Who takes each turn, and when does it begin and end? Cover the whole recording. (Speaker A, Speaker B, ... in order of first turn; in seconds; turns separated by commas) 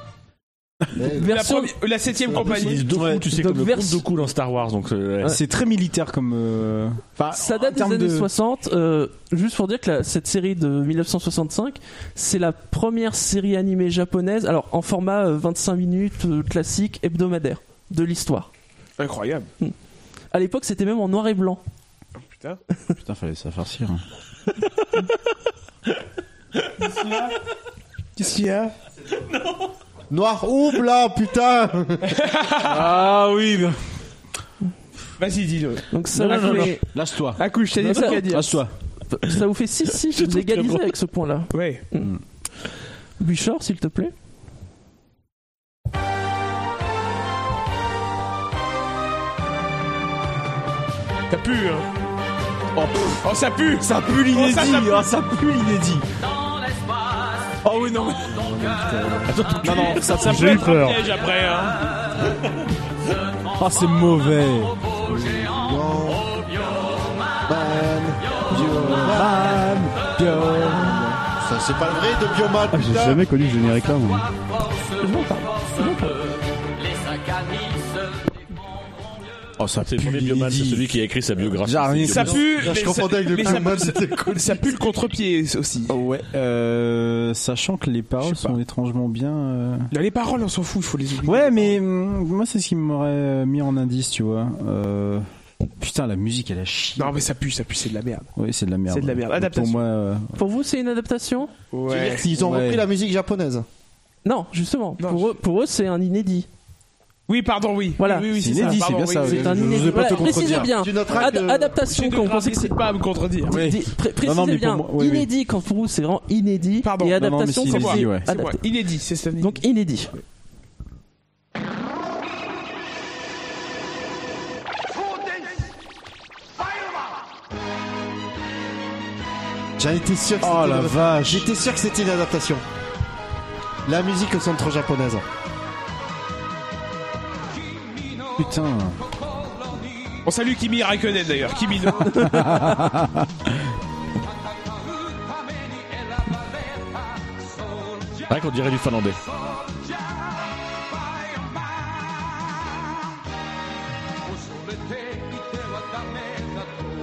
Speaker A: 1.0-1.3, Speaker B: 1.1-1.7, Speaker C: 1.2-2.9, Speaker A: 2.1-2.8, Speaker D: 2.4-5.4, Speaker E: 2.9-3.3, Speaker B: 3.3-4.0, Speaker E: 5.2-8.3, Speaker B: 7.3-18.5, Speaker C: 19.0-19.5, Speaker B: 20.3-21.6, Speaker C: 22.2-22.6, Speaker E: 23.0-24.0, Speaker C: 26.9-27.3, Speaker C: 28.2-28.7, Speaker A: 30.1-32.3, Speaker C: 32.1-32.8, Speaker E: 32.6-33.8, Speaker C: 35.2-36.7, Speaker B: 35.9-36.9, Speaker E: 36.1-38.7, Speaker C: 37.4-38.6, Speaker B: 37.8-38.6, Speaker B: 39.1-42.1, Speaker D: 40.1-40.9, Speaker C: 41.5-41.8, Speaker B: 43.2-44.1, Speaker C: 51.3-51.9, Speaker E: 52.8-53.2, Speaker C: 53.2-55.1, Speaker E: 53.8-56.1, Speaker F: 56.7-57.2, Speaker E: 57.6-58.5, Speaker A: 58.4-59.3, Speaker D: 59.3-60.2, Speaker E: 59.6-60.7, Speaker C: 60.0-61.8, Speaker G: 60.2-61.0, Speaker E: 63.6-64.8, Speaker A: 65.0-66.3, Speaker A: 67.5-69.5, Speaker E: 68.5-71.2, Speaker A: 71.3-73.2, Speaker G: 72.7-74.3, Speaker B: 75.0-76.2, Speaker E: 79.6-80.9, Speaker D: 79.8-82.4, Speaker E: 81.5-82.6, Speaker C: 82.1-85.9, Speaker A: 82.3-84.7, Speaker E: 85.9-89.9, Speaker C: 88.2-88.6, Speaker C: 89.9-91.8, Speaker E: 91.2-95.2, Speaker E: 95.8-97.2, Speaker C: 97.0-98.3, Speaker E: 98.4-100.4, Speaker C: 98.9-99.8, Speaker B: 100.3-101.5, Speaker C: 101.7-102.3, Speaker A: 101.9-103.7, Speaker E: 102.3-102.8, Speaker B: 104.2-106.5, Speaker C: 105.0-105.3, Speaker C: 107.3-110.2, Speaker B: 108.0-112.8, Speaker E: 108.3-110.8, Speaker A: 109.6-111.8, Speaker C: 111.8-113.6, Speaker E: 113.5-115.3, Speaker B: 113.5-118.6, Speaker C: 116.8-119.6, Speaker E: 117.1-118.3, Speaker B: 119.4-120.1, Speaker A: 129.8-132.6, Speaker E: 130.4-131.5, Speaker A: 133.9-135.2, Speaker E: 138.4-139.0, Speaker C: 140.2-142.3, Speaker B: 142.1-142.9, Speaker E: 142.1-143.3, Speaker F: 145.8-146.3, Speaker D: 148.3-149.2, Speaker F: 154.8-156.5